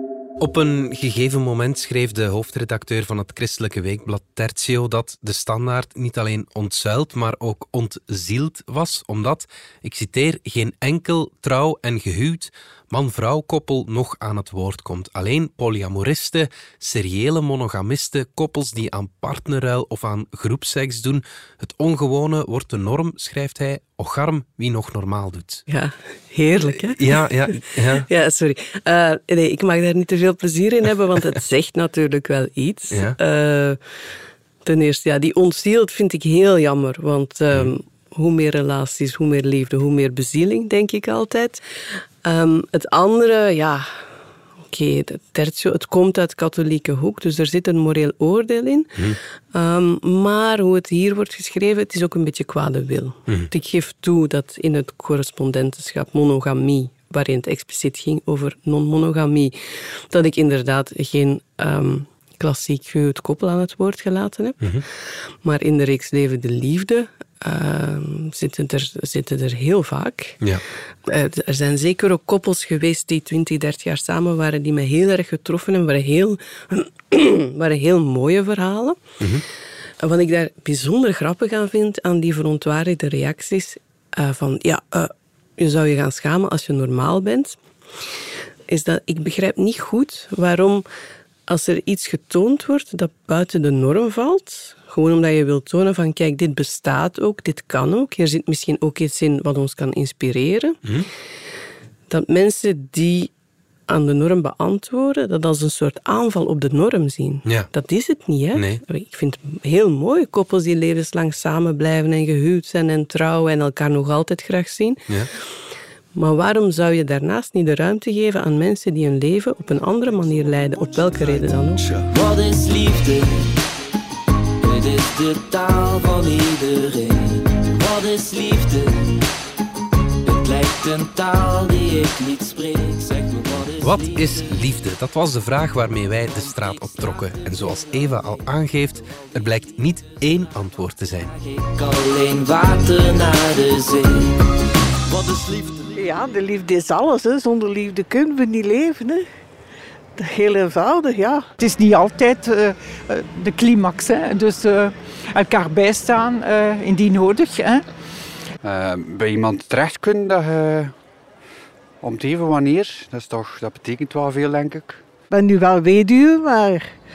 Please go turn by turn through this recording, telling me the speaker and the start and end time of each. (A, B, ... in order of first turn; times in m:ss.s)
0:00.4-0:25.6 A
0:25.7-0:33.8 B
0:26.6-0:28.1 A
0:32.9-0:33.2 A
0:34.6-0:44.0 B
0:44.7-0:49.0 B
0:49.5-1:04.9 B
1:05.4-1:10.4 B
1:11.1-1:19.0 B
1:20.0-1:27.6 B
1:28.7-1:30.8 B
1:31.5-1:40.8 B
1:42.1-1:43.3 B
1:43.9-1:55.1 B
1:48.5-1:48.8 A
1:56.1-2:01.8 B
2:01.8-2:03.6 C
2:04.6-2:09.2 C
2:10.2-2:14.5 C
2:13.8-2:21.3 A
2:16.5-2:17.7 C
2:21.4-2:24.4 C
2:25.1-2:26.0 C
2:26.0-2:29.2 D
2:30.2-2:31.4 D
2:31.6-2:37.8 E
2:38.6-2:40.9 F
2:42.0-2:45.0 F
2:45.3-2:46.8 D